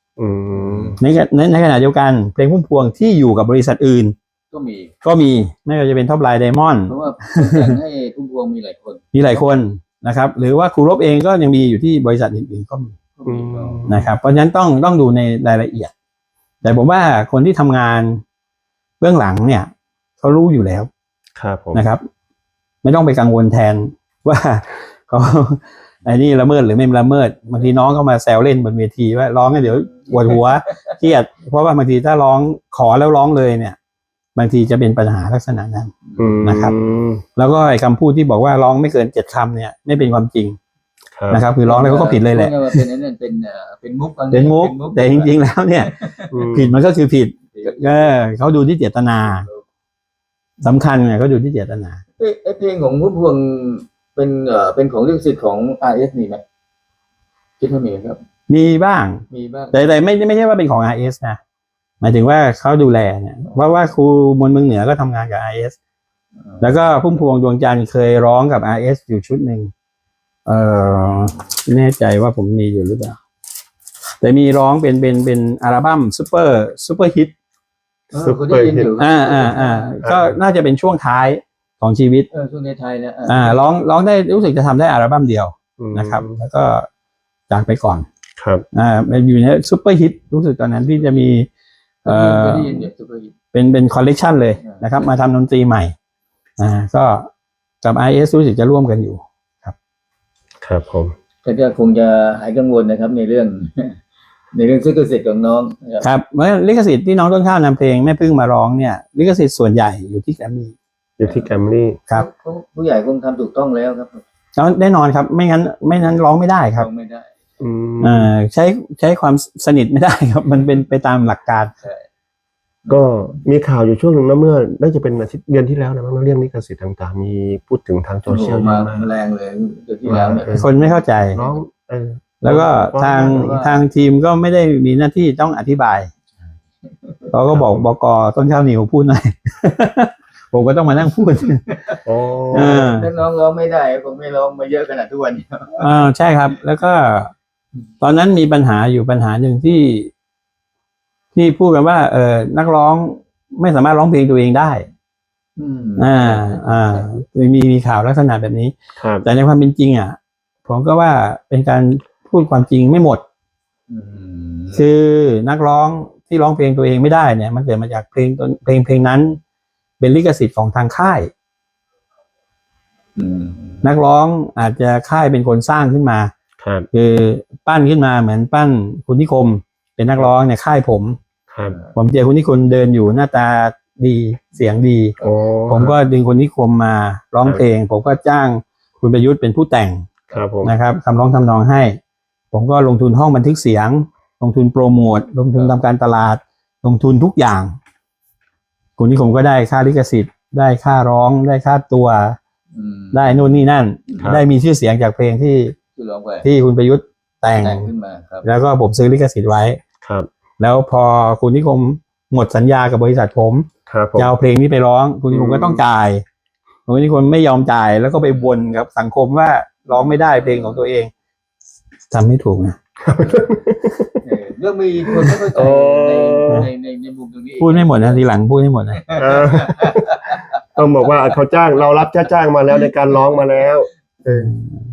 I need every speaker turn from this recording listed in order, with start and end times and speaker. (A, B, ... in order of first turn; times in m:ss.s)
0:00.2-0:01.0 A
0:00.6-0:01.0 B
0:01.0-0:04.1 C
0:04.5-0:04.9 B
0:05.0-0:07.7 C
0:06.9-0:09.4 B
0:09.1-0:12.9 C
0:13.2-0:14.0 B
0:13.2-0:14.0 A
0:13.9-0:15.9 C
0:16.6-0:18.2 C
0:19.0-0:19.7 C
0:20.2-0:20.9 C
0:21.4-0:21.8 A
0:21.7-0:22.0 C
0:22.8-0:33.8 C
0:29.6-0:31.0 B
0:34.4-0:36.7 C
0:36.1-0:36.4 B
0:36.2-0:37.2 A
0:37.4-0:40.6 C
0:41.1-0:41.5 A
0:41.3-0:42.7 C
0:41.6-0:46.3 B
0:44.3-0:45.9 C
0:46.3-0:46.8 A
0:46.5-0:49.4 C
0:47.5-0:48.2 B
0:49.2-0:49.6 B
0:50.6-0:52.0 C
0:52.2-0:56.4 B
0:57.6-0:58.2 B
0:58.5-1:01.4 C
0:59.3-0:59.8 B
1:02.0-1:05.8 C
1:03.5-1:03.8 B
1:06.5-1:06.8 B
1:06.6-1:09.7 C
1:10.4-1:13.2 C
1:14.2-1:17.3 C
1:18.1-1:20.0 B
1:18.1-1:18.9 A
1:19.0-1:22.3 C
1:20.0-1:20.4 A
1:22.3-1:23.7 B
1:23.2-1:26.8 C
1:25.8-1:26.4 A
1:27.5-1:28.0 C
1:28.4-1:28.6 A
1:28.7-1:31.5 C
1:32.0-1:33.3 B
1:32.0-1:32.9 C
1:33.5-1:35.9 C
1:34.6-1:35.1 B
1:36.6-1:37.3 C
1:37.8-1:39.7 C
1:40.6-1:41.1 A
1:41.4-1:44.0 B
1:44.5-1:46.1 B
1:46.0-1:50.7 C
1:51.2-1:52.0 A
1:51.2-1:51.5 B
1:52.1-1:54.2 B
1:54.6-1:56.9 C
1:56.7-1:57.3 B
1:57.6-1:58.3 A
1:58.0-2:01.7 C
2:02.9-2:09.1 A
2:08.3-2:11.6 B
2:10.0-2:10.7 A
2:10.5-2:11.4 C
2:11.3-2:13.5 A
2:12.4-2:16.1 C
2:13.3-2:13.8 B
2:17.3-2:21.6 C
2:17.5-2:17.8 A
2:21.7-2:26.0 B
2:22.0-2:23.0 A
2:22.5-2:23.1 C
2:25.8-2:27.3 C
2:28.0-2:30.1 C
2:31.3-2:34.8 C
2:35.6-2:37.2 B
2:36.0-2:43.2 C
2:39.0-2:39.3 A
2:43.9-2:44.8 B
2:44.7-2:49.4 C
2:50.0-2:51.3 C
2:53.2-2:53.8 B
2:53.8-2:56.3 C
2:56.6-2:56.9 A
2:56.9-3:01.2 C
3:01.5-3:01.8 A
3:01.9-3:05.1 C
3:05.2-3:06.0 A
3:05.7-3:10.1 C
3:10.3-3:10.7 A
3:10.6-3:12.0 C
3:12.5-3:17.7 C
3:19.0-3:22.4 C
3:22.7-3:24.3 B
3:23.1-3:25.8 C
3:24.2-3:24.4 A
3:26.0-3:26.5 B
3:26.4-3:27.9 C
3:27.6-3:28.5 B
3:28.4-3:29.8 C
3:30.0-3:30.3 A
3:30.6-3:36.2 C
3:33.9-3:34.3 A
3:35.3-3:35.8 A
3:36.9-3:41.1 C
3:39.9-3:40.9 B
3:42.1-3:42.8 C
3:43.0-3:44.1 A
3:44.2-3:48.2 B
3:45.5-3:46.7 A
3:47.6-3:49.0 C
3:49.0-3:50.4 B
3:49.2-3:54.5 A
3:54.3-3:54.7 C